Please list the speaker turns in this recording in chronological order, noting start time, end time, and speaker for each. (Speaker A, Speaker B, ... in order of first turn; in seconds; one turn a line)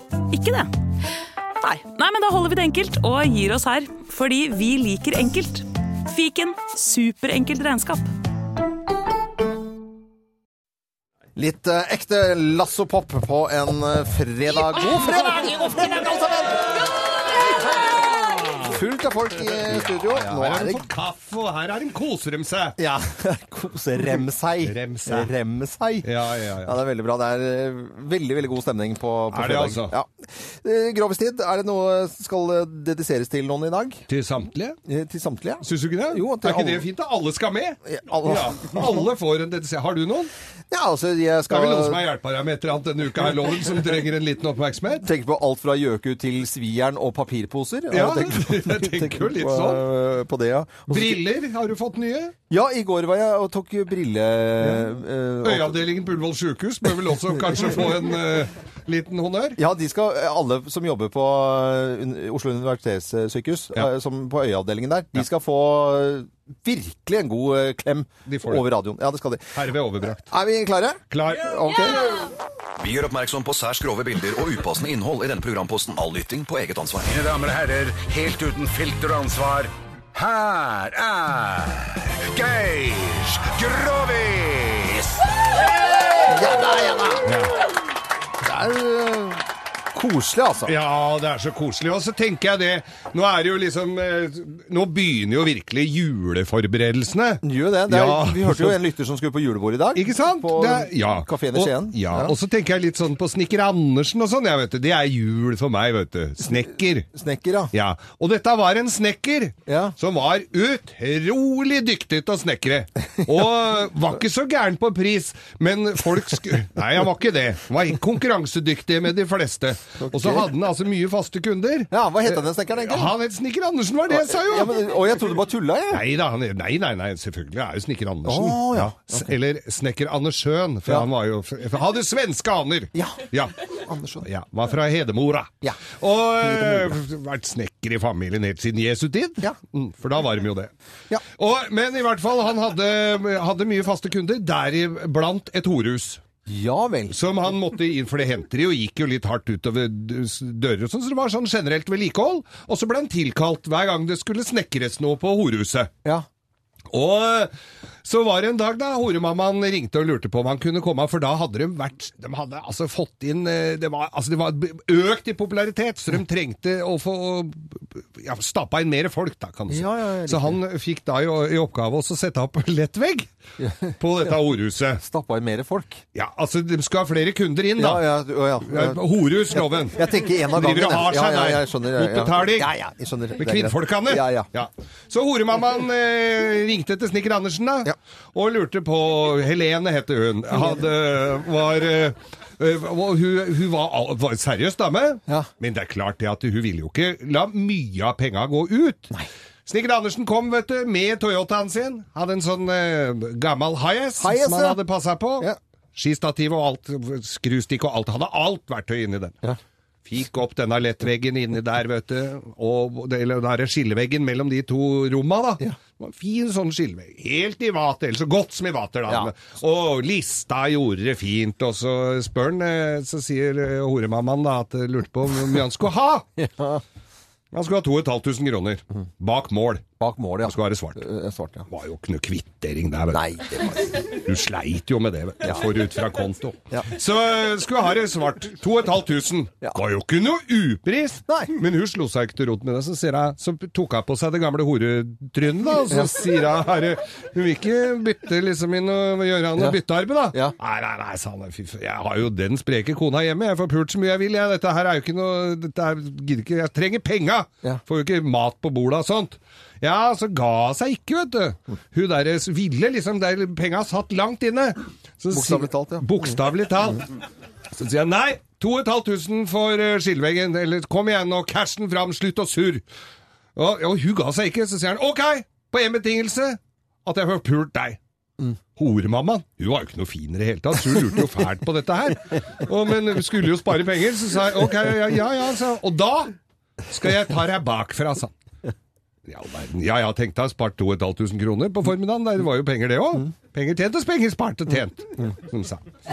Speaker A: 0.3-0.7
Speaker A: 1.6-8.1
Speaker B: 11.3-17.3
Speaker B: 18.6-20.9
Speaker C: 19.7-22.8
Speaker B: 22.8-34.0
Speaker C: 24.1-25.3
Speaker C: 26.0-26.8
Speaker C: 29.3-29.9
Speaker C: 34.1-34.8
Speaker B: 34.9-36.9
Speaker C: 35.6-40.3
Speaker B: 37.9-38.8
Speaker B: 40.7-42.0
Speaker C: 41.5-45.1
Speaker B: 45.0-51.2
Speaker C: 47.9-49.8
Speaker C: 50.9-52.3
Speaker B: 52.5-55.8
Speaker C: 55.4-59.6
Speaker B: 59.6-69.5
Speaker C: 68.3-68.7
Speaker C: 69.5-70.3
Speaker B: 70.2-72.3
Speaker C: 71.1-71.5
Speaker D: 72.8-77.3
Speaker E: 77.3-81.8
Speaker E: 82.3-84.3
Speaker B: 86.1-87.3
Speaker C: 87.2-87.5
Speaker B: 88.4-90.7
Speaker C: 90.7-98.8
Speaker B: 97.4-102.3
Speaker C: 99.9-107.1
Speaker B: 107.1-107.7
Speaker C: 107.7-124.8
Speaker B: 109.7-110.0
Speaker B: 120.0-120.5
Speaker B: 121.9-123.1
Speaker B: 124.1-126.0
Speaker C: 125.9-133.6
Speaker B: 128.2-129.2
Speaker B: 132.9-134.3
Speaker C: 134.2-140.7
Speaker C: 141.4-146.2
Speaker B: 146.5-147.2
Speaker C: 147.1-155.9
Speaker C: 156.9-157.5
Speaker C: 158.0-173.3
Speaker B: 169.7-170.6
Speaker B: 173.6-173.9
Speaker C: 174.0-175.0
Speaker B: 175.0-176.0
Speaker C: 176.1-178.1
Speaker B: 177.8-179.0
Speaker C: 178.7-182.7
Speaker B: 179.5-184.5
Speaker C: 183.4-199.1
Speaker C: 199.7-209.4
Speaker B: 204.2-204.8
Speaker C: 210.1-226.2
Speaker B: 226.4-226.8
Speaker C: 227.5-229.8
Speaker B: 230.0-231.7
Speaker C: 230.4-231.0
Speaker C: 231.7-233.3
Speaker B: 233.1-234.1
Speaker C: 233.9-267.1
Speaker B: 241.3-241.5
Speaker B: 245.9-246.2
Speaker B: 265.3-266.1
Speaker C: 267.7-272.8
Speaker C: 273.5-278.0
Speaker C: 278.8-288.3
Speaker C: 289.2-295.8